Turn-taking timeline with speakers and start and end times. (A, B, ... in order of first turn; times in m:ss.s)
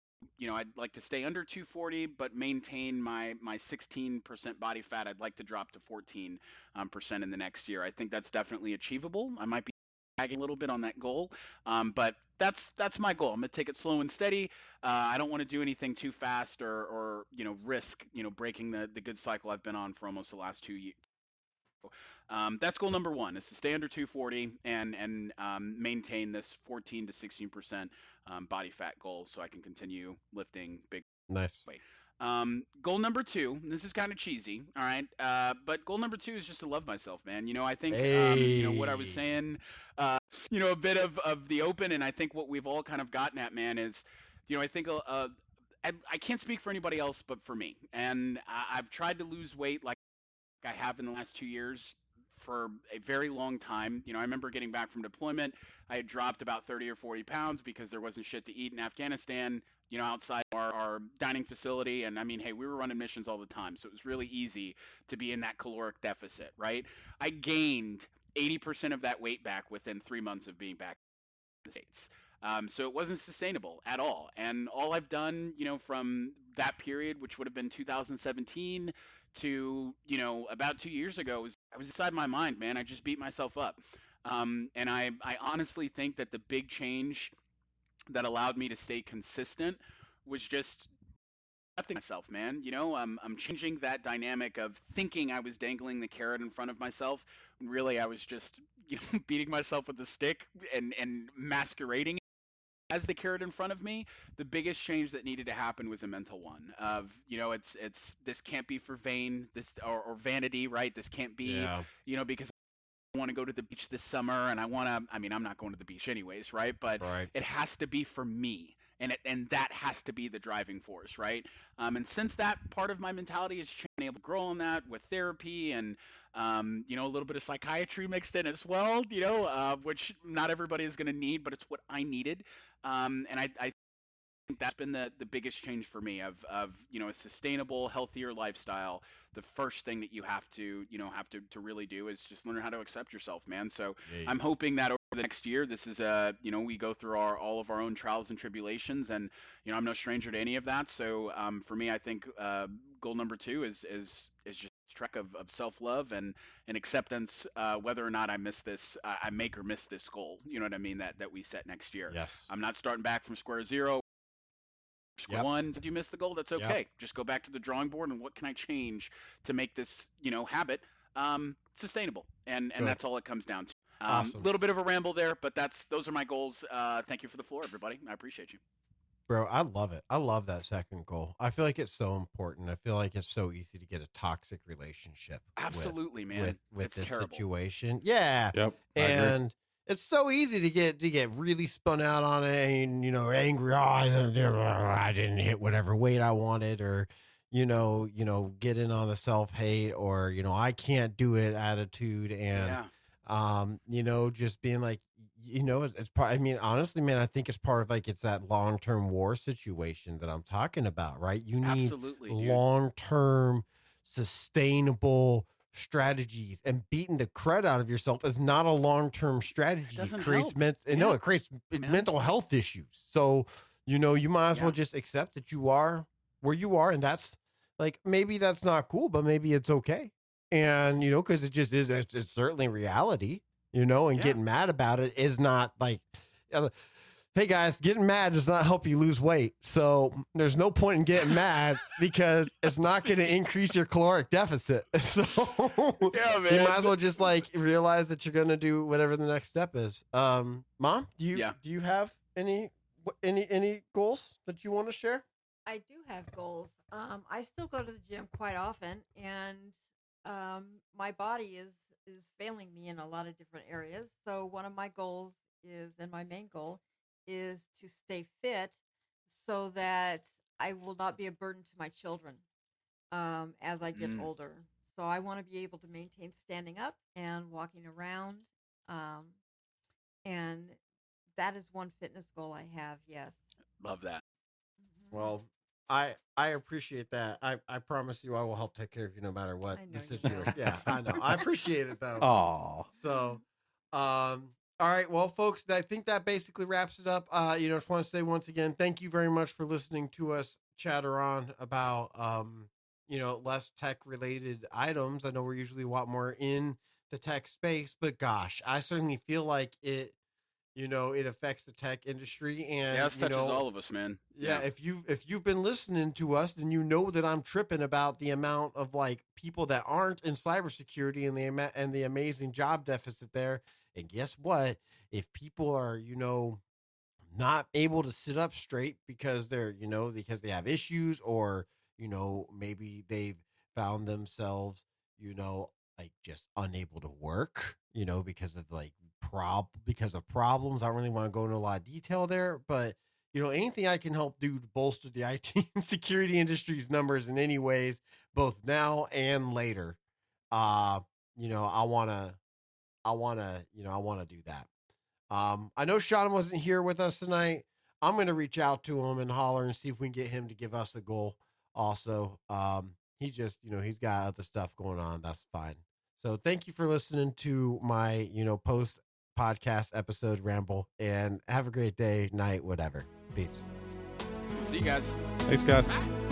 0:00.4-0:21.0 A
0:21.9-0:31.0 A
0:31.3-0:31.7 B
0:31.7-0:50.0 A
0:37.9-0:39.2 B
0:50.6-1:11.0 A
1:11.6-1:27.3 A
1:28.1-1:30.9 A
1:31.8-1:42.2 A
1:42.9-1:52.5 A
1:51.4-1:51.9 B
1:53.1-2:13.8 A
1:57.0-1:57.3 B
2:14.5-2:44.0 A
2:24.1-2:24.4 B
2:42.1-2:42.5 B
2:45.2-2:58.6 A
2:54.1-2:54.5 B
2:59.3-3:56.7 B
3:05.6-3:07.4 A
3:08.5-3:09.4 C
3:22.5-3:22.9 A
3:31.6-3:32.6 A
3:40.0-3:41.2 A
3:41.8-3:42.1 A
3:57.3-4:15.2 B
4:06.1-4:07.0 A
4:15.7-4:32.4 D
4:33.1-4:39.4 D
4:33.9-4:34.3 A
4:40.2-4:40.8 D
4:41.4-4:43.4 D
4:43.8-4:44.2 A
4:44.8-4:45.3 D
4:45.1-4:52.3 B
4:49.7-4:51.3 D
4:50.4-4:50.7 C
4:52.2-4:52.9 C
4:53.0-4:53.4 B
4:53.9-5:10.2 B
5:10.8-5:13.6 B
5:12.9-5:14.7 A
5:14.4-5:26.6 B
5:27.3-5:50.0 B
5:50.5-5:52.4 B
5:53.0-5:54.7 B
5:55.3-6:13.7 B
6:14.5-6:15.2 A
6:15.5-6:16.0 C